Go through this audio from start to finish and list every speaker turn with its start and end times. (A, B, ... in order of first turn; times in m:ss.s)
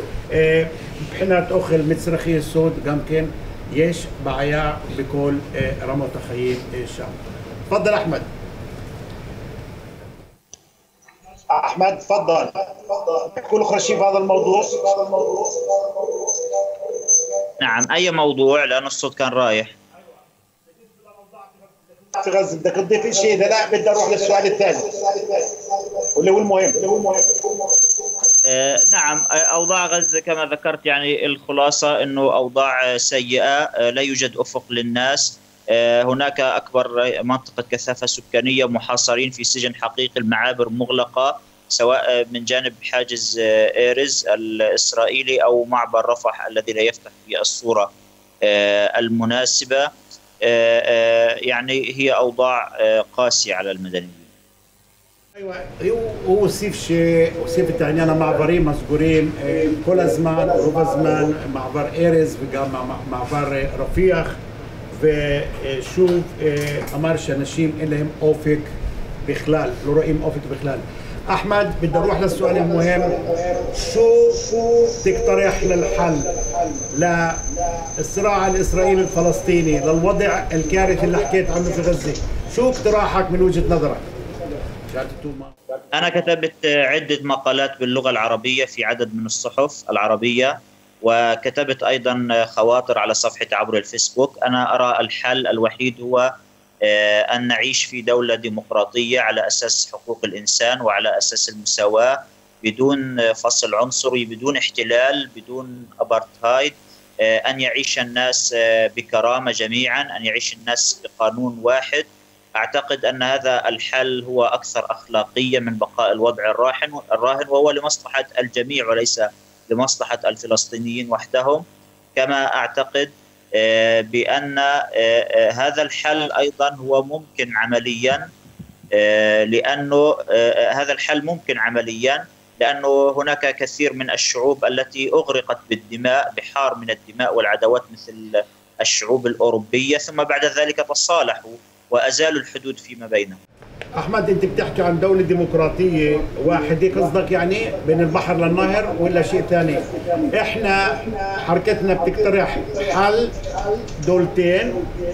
0:00.3-0:07.2 A
0:07.7-0:08.3 A
0:11.5-0:16.3 B
0:17.6-0:19.8 C
0:22.1-0:25.6 B
0:26.2-0:27.6 B
0:28.5-0:47.9 C
0:48.4-0:49.9 C
0:50.4-0:54.3 C
0:55.4-1:04.4 A
1:04.9-1:08.7 A
1:09.3-1:13.2 A
1:12.4-1:13.7 B
1:13.7-1:16.4 A
1:14.7-1:15.0 B
1:16.9-1:17.4 A
1:18.0-1:24.0 A
1:24.9-1:25.5 A
1:25.9-1:36.3 C
1:36.9-1:52.1 C
1:52.6-2:01.6 C
2:02.2-2:08.3 C
2:09.0-2:23.4 C
2:24.0-2:30.9 A
2:31.4-2:33.3 A
2:34.0-2:34.8 A